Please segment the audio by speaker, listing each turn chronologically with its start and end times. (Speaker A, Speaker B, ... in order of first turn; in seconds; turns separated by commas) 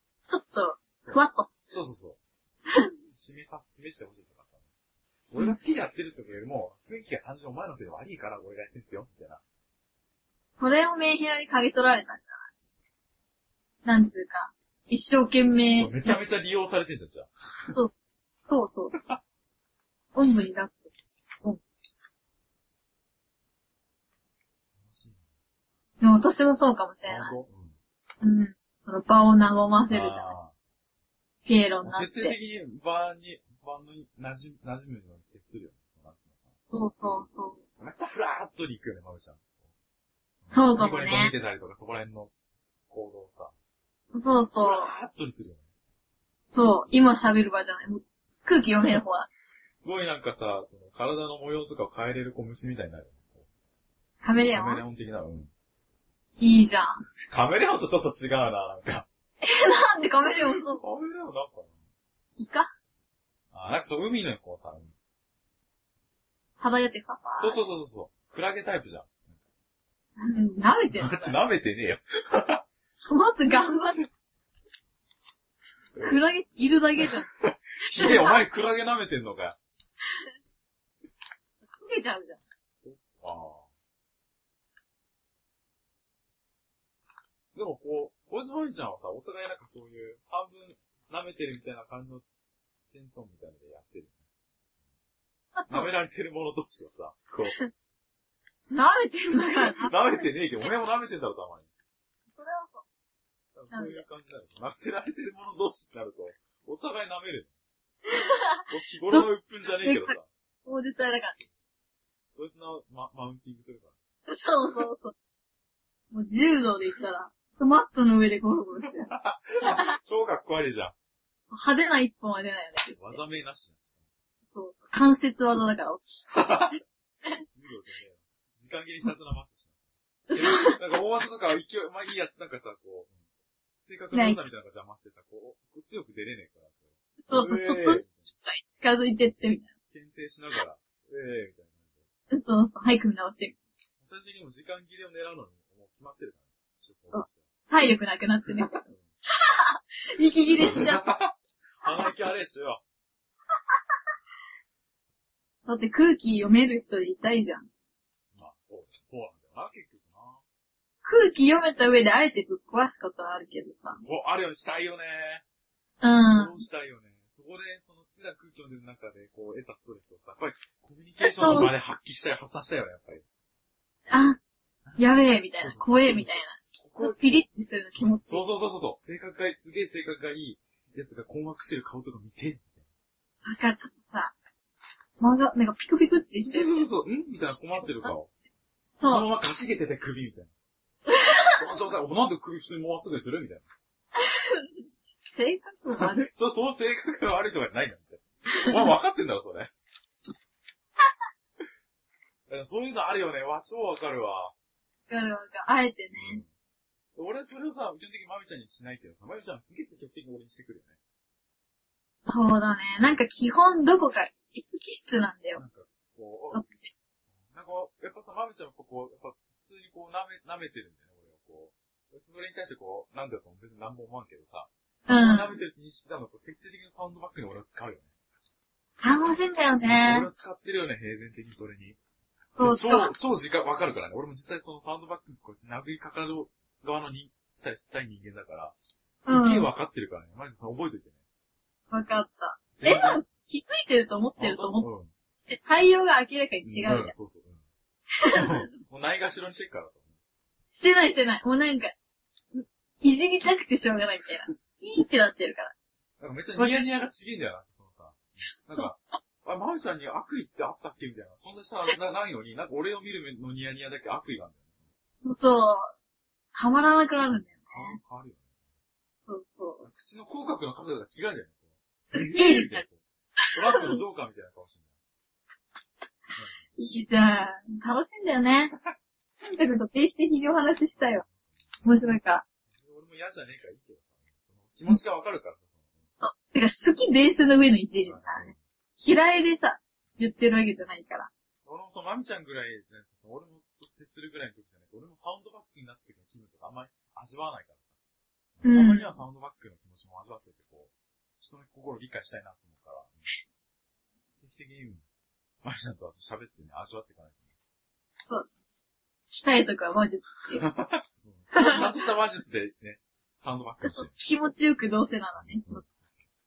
Speaker A: 0.3-1.5, Speaker B: 1.0-2.2, Speaker B: 3.1-4.6, Speaker B: 5.3-9.4, Speaker A: 10.6-12.4, Speaker A: 13.8-16.1, Speaker B: 15.7-17.7, Speaker A: 18.5-18.9, Speaker B: 18.9-19.2, Speaker A: 20.1-20.9, Speaker B: 24.8-25.2, Speaker A: 26.0-27.3, Speaker B: 27.1-27.8, Speaker A: 28.2-30.3, Speaker B: 29.9-30.5, Speaker A: 31.4-32.4, Speaker B: 31.8-36.5, Speaker A: 36.7-37.6, Speaker B: 37.8-39.5, Speaker B: 40.4-42.3, Speaker A: 40.5-41.3, Speaker B: 42.9-43.5, Speaker A: 44.1-44.9, Speaker B: 44.6-45.7, Speaker A: 46.5-49.3, Speaker B: 49.8-53.4, Speaker A: 54.2-54.8, Speaker B: 54.5-55.5, Speaker A: 56.4-57.0, Speaker B: 57.3-59.1, Speaker A: 59.4-60.8, Speaker B: 60.8-61.7, Speaker A: 62.4-62.7, Speaker B: 63.5-64.9, Speaker A: 66.6-67.6, Speaker B: 67.4-69.2, Speaker A: 70.2-71.4, Speaker B: 70.9-72.7, Speaker A: 73.0-74.0, Speaker B: 75.9-76.2, Speaker A: 76.0-77.3, Speaker B: 77.0-79.6, Speaker A: 77.9-78.4, Speaker A: 81.6-82.4, Speaker B: 82.8-83.7, Speaker B: 87.5-92.2, Speaker B: 92.9-94.2, Speaker A: 95.5-95.9, Speaker B: 95.7-97.6, Speaker A: 98.7-100.2, Speaker B: 99.6-101.7, Speaker A: 102.3-102.8, Speaker B: 103.5-107.5, Speaker A: 103.7-104.0, Speaker A: 108.0-109.2, Speaker B: 108.7-110.3, Speaker A: 109.8-111.4, Speaker B: 112.3-114.0, Speaker A: 114.3-115.1, Speaker A: 116.1-119.1, Speaker B: 118.8-120.9, Speaker A: 119.6-120.0, Speaker A: 121.5-123.0, Speaker B: 122.9-123.9, Speaker A: 124.5-126.3, Speaker B: 126.3-126.8, Speaker B: 127.4-129.8, Speaker A: 130.3-130.8, Speaker B: 130.3-133.1, Speaker B: 133.8-138.3, Speaker A: 134.1-134.4, Speaker A: 137.2-139.7, Speaker B: 139.9-142.1, Speaker A: 142.3-143.5, Speaker B: 144.0-147.5, Speaker A: 147.1-151.1, Speaker B: 148.5-149.1, Speaker B: 150.6-152.8, Speaker A: 151.8-152.1, Speaker A: 155.7-157.7, Speaker B: 158.3-160.4, Speaker A: 161.0-164.0, Speaker B: 163.9-165.4, Speaker A: 166.0-166.6, Speaker B: 166.3-173.2, Speaker A: 171.2-171.7, Speaker A: 174.1-174.4, Speaker A: 175.0-178.4, Speaker B: 175.6-177.4, Speaker B: 178.2-182.8, Speaker A: 183.4-184.3, Speaker A: 185.2-186.8, Speaker B: 186.4-188.3, Speaker A: 189.0-189.3, Speaker B: 189.1-190.5, Speaker A: 191.1-191.7, Speaker B: 191.6-193.6, Speaker A: 194.2-196.3, Speaker B: 196.0-199.7, Speaker A: 198.6-198.9, Speaker B: 202.5-204.5, Speaker A: 205.1-206.4, Speaker B: 206.1-206.5, Speaker B: 207.1-211.0, Speaker A: 212.2-215.6, Speaker B: 215.5-216.6, Speaker A: 216.5-216.9, Speaker B: 217.4-228.1, Speaker A: 225.1-225.5, Speaker A: 229.0-230.3, Speaker B: 229.8-232.0, Speaker A: 232.6-233.1, Speaker B: 232.6-238.7, Speaker A: 239.2-239.7, Speaker B: 239.3-241.1, Speaker A: 241.9-244.9, Speaker B: 242.8-243.2, Speaker B: 244.4-245.1, Speaker A: 245.5-247.1, Speaker B: 246.6-247.6, Speaker A: 248.2-248.5, Speaker B: 248.3-250.1, Speaker A: 250.7-251.9, Speaker A: 252.5-255.7, Speaker B: 256.2-264.7, Speaker A: 256.6-256.8, Speaker A: 265.2-265.9, Speaker A: 266.5-268.0, Speaker B: 267.3-268.5, Speaker A: 269.3-269.8, Speaker B: 269.8-274.9, Speaker A: 272.1-272.8, Speaker A: 273.7-274.0, Speaker B: 276.3-276.7, Speaker A: 276.8-278.7, Speaker A: 279.4-281.2, Speaker B: 281.2-281.6, Speaker A: 281.8-282.4, Speaker B: 282.7-286.0, Speaker A: 286.2-291.3, Speaker B: 288.0-288.6, Speaker B: 291.6-297.9, Speaker B: 298.6-303.3, Speaker A: 298.6-299.2, Speaker B: 304.4-305.0, Speaker B: 305.6-307.5, Speaker A: 309.3-310.6, Speaker B: 310.5-314.2, Speaker A: 311.5-311.9, Speaker A: 313.8-315.8, Speaker B: 315.4-315.9